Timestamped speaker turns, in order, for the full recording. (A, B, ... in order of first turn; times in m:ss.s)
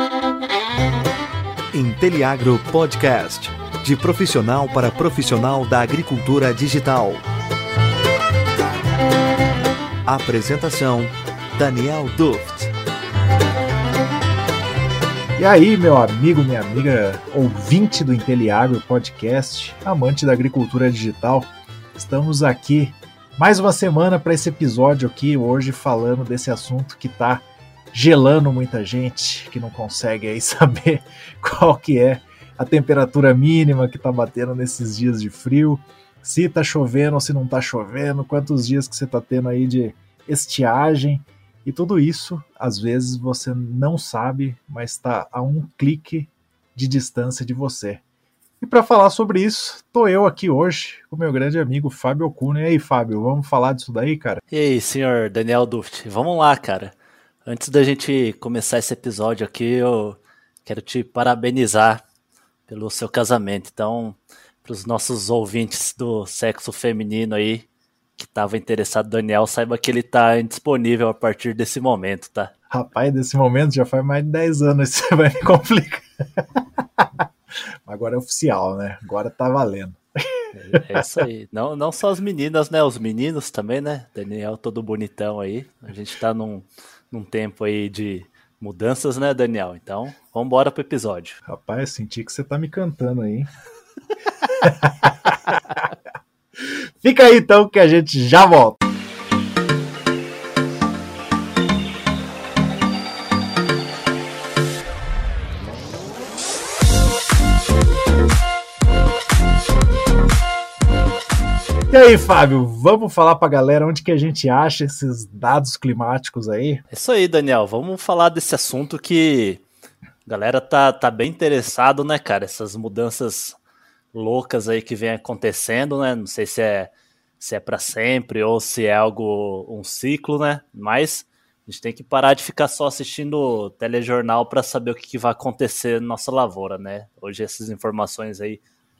0:01.7-0:07.2 A
0:10.0-0:12.7 A
0:15.4-0:48.0 B
0:48.6-0:54.4 B
0:54.5-1:02.0 C
1:02.7-1:12.5 C
1:12.7-1:16.0 B
1:17.8-1:21.0 B
1:20.5-1:31.4 C
1:31.4-1:33.5 B
1:34.6-1:35.9 B
1:37.0-1:38.8 B
1:51.9-1:56.8 B
1:56.9-1:59.6 C
2:00.2-2:03.6 C
2:04.1-2:18.6 C